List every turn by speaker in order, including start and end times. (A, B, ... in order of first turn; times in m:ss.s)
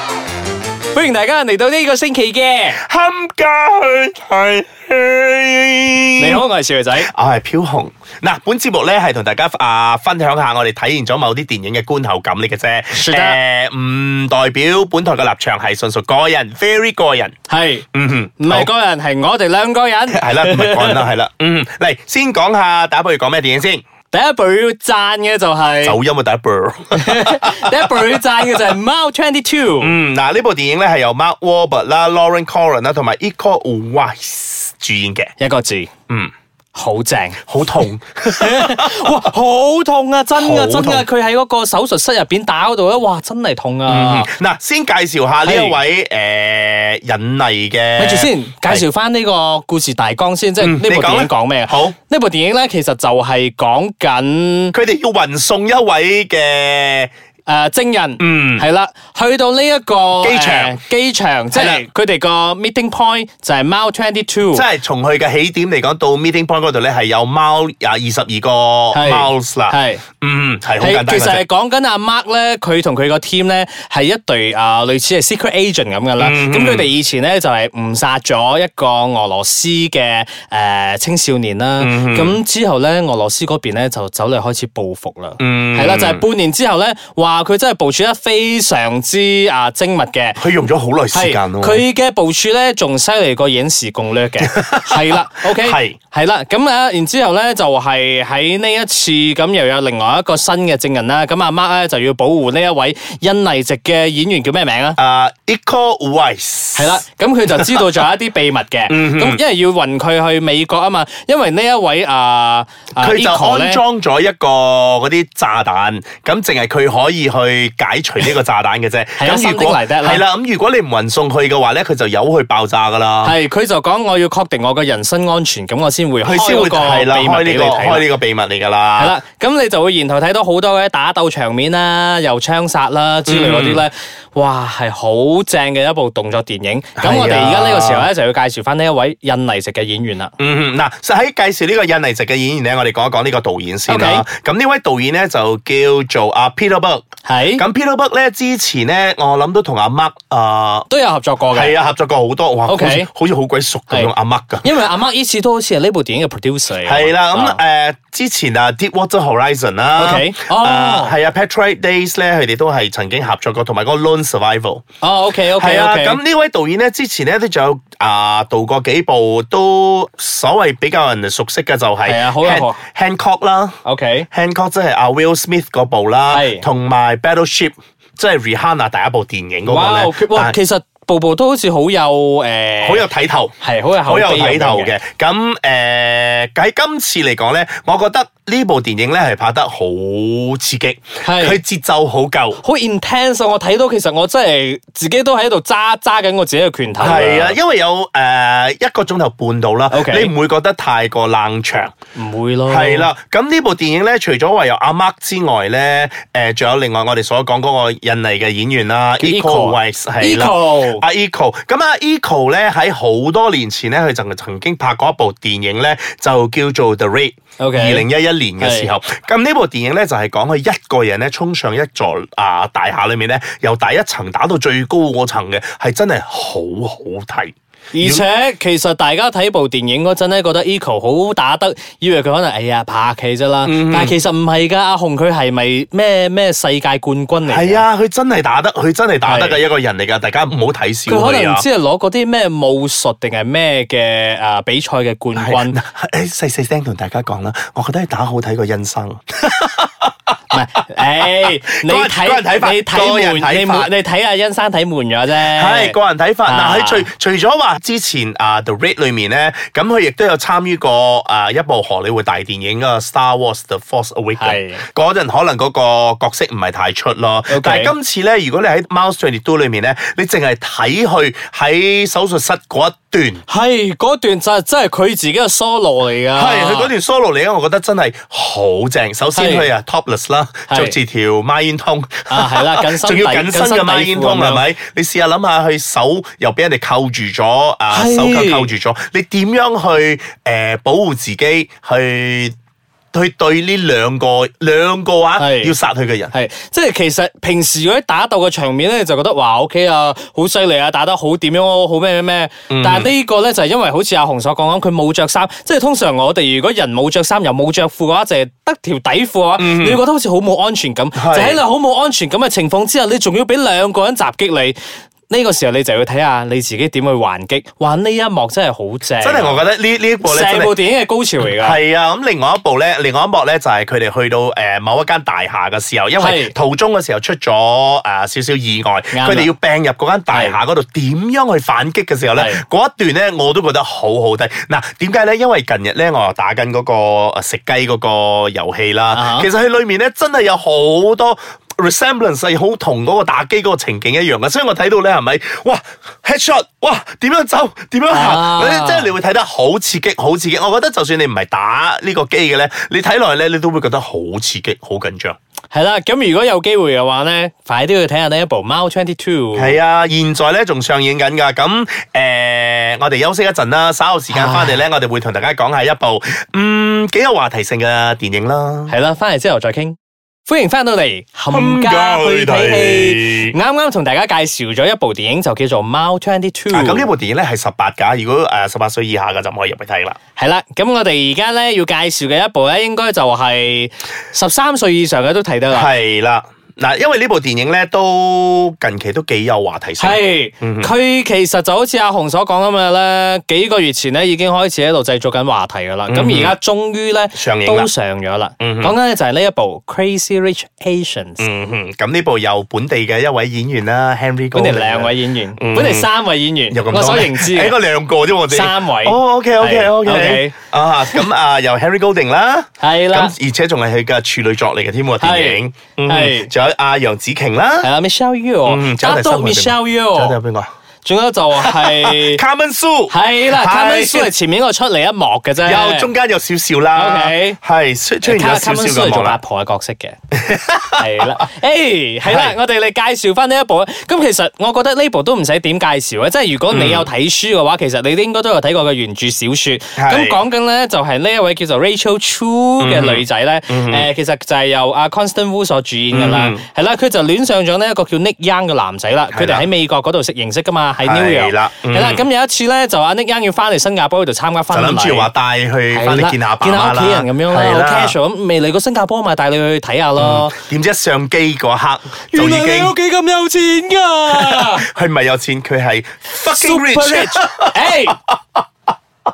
0:00.9-0:02.8 A
0:02.7-0:06.4 B
0:06.2-0:07.1 A
0:07.0-0:17.3 B
0:12.9-0:13.4 A
0:17.5-0:17.9 A
0:17.9-0:18.7 B
0:18.4-0:21.0 A
0:20.1-0:23.8 B
0:24.1-0:26.0 A
0:25.8-0:28.6 B
0:26.9-0:29.9 A
0:29.8-0:35.3 B
0:35.4-0:35.9 A
0:36.7-0:44.3 A
0:37.5-0:39.2 B
0:40.3-0:41.0 B
0:43.8-0:48.8 B
0:45.4-0:45.8 A
0:48.0-0:54.7 A
0:50.6-0:52.0 B
0:54.7-0:57.1 B
0:57.4-1:04.6 A
0:58.2-0:58.6 B
1:00.2-1:00.8 B
1:01.5-1:01.8 B
1:04.5-1:11.4 B
1:08.9-1:10.0 A
1:10.8-1:30.4 A
1:16.2-1:16.9 B
1:21.8-1:22.4 B
1:25.4-1:26.2 B
1:30.4-1:31.8 B
1:31.1-1:45.0 A
1:34.4-1:36.0 B
1:45.0-1:48.0 B
1:46.8-1:53.8 A
1:48.9-1:49.4 B
1:53.0-2:03.4 B
1:59.2-2:00.2 A
2:03.2-2:08.1 A
2:06.2-2:09.2 B
2:09.0-2:20.3 A
2:13.3-2:13.8 B
2:17.0-2:18.1 B
2:20.4-2:30.9 B
2:23.9-2:24.2 A
2:27.2-2:27.6 A
2:30.9-2:31.8 A
2:31.5-2:34.7 B
2:32.6-2:33.1 A
2:34.6-2:37.6 A
2:36.8-2:44.8 B
2:40.0-2:41.2 A
2:45.0-2:46.2 A
2:45.6-2:53.8 B
2:52.0-2:52.8 A
2:53.8-2:54.3 A
2:54.3-3:00.5 B
2:56.3-2:56.6 A
2:59.6-3:03.1 A
3:02.8-3:03.5 B
3:03.6-3:04.9 A
3:04.0-3:12.6 B
3:11.2-3:11.6 A
3:12.6-3:17.6 A
3:17.0-3:21.9 B
3:19.9-3:20.3 A
3:22.1-3:23.1 A
3:22.7-3:48.2 B
3:29.2-3:31.0 A
3:37.6-3:38.1 A
3:38.6-3:38.9 A
3:47.9-3:57.8 A
3:53.6-3:54.2 B
3:57.5-4:01.6 B
3:59.2-3:59.6 A
4:01.1-4:05.8 A
4:05.4-4:10.5 B
4:10.5-4:17.1 A
4:11.2-4:13.9 B
4:15.4-4:33.4 B
4:24.4-4:24.8 A
4:27.5-4:27.9 A
4:33.5-4:36.9 A
4:36.3-4:52.5 B
4:39.3-4:39.7 A
4:40.7-4:41.0 A
4:42.3-4:44.7 A
4:47.9-4:48.7 A
4:53.1-4:56.3 B
4:55.4-4:55.7 A
4:56.3-5:14.8 A
5:02.7-5:03.1 B
5:09.6-5:10.0 B
5:11.1-5:11.6 B
5:15.3-5:19.6 A
5:19.2-5:20.7 B
5:20.2-5:21.8 A
5:21.4-5:55.4 B
5:26.2-5:26.5 A
5:29.1-5:29.5 A
5:30.3-5:30.6 A
5:32.3-5:32.6 A
5:39.1-5:39.5 A
5:48.1-5:49.1 A
5:55.7-5:59.8 A
5:59.5-6:08.9 B
6:04.3-6:04.8 A
6:08.9-6:10.0 A
6:10.5-6:17.1 A
6:11.5-6:13.6 B
6:16.7-6:20.2 B
6:20.4-6:25.9 A
6:25.7-6:30.9 B
6:30.0-6:41.4 A
6:36.1-6:36.5 B
6:37.3-6:37.9 B
6:38.6-6:39.0 B
6:41.4-6:46.1 B
6:44.5-6:47.8 A
6:46.7-6:57.9 B
6:48.5-6:50.6 A
6:52.8-6:53.3 A
6:55.2-6:56.5 A
6:57.8-7:00.4 A
6:58.6-7:00.7 B
7:01.0-7:02.4 A
7:01.6-7:04.3 B
7:03.1-7:06.1 A
7:05.6-7:09.4 B
7:06.9-7:07.6 A
7:08.2-7:10.2 A
7:10.3-7:11.3 B
7:11.0-7:35.3 A
7:12.2-7:12.6 B
7:16.7-7:17.1 B
7:20.0-7:20.4 B
7:22.8-7:24.1 B
7:26.1-7:26.6 B
7:29.3-7:29.7 B
7:31.0-7:32.2 B
7:34.7-7:38.2 B
7:35.9-7:40.5 A
7:40.2-7:42.9 B
7:42.3-7:44.8 A
7:44.3-7:48.3 B
7:46.4-7:48.2 A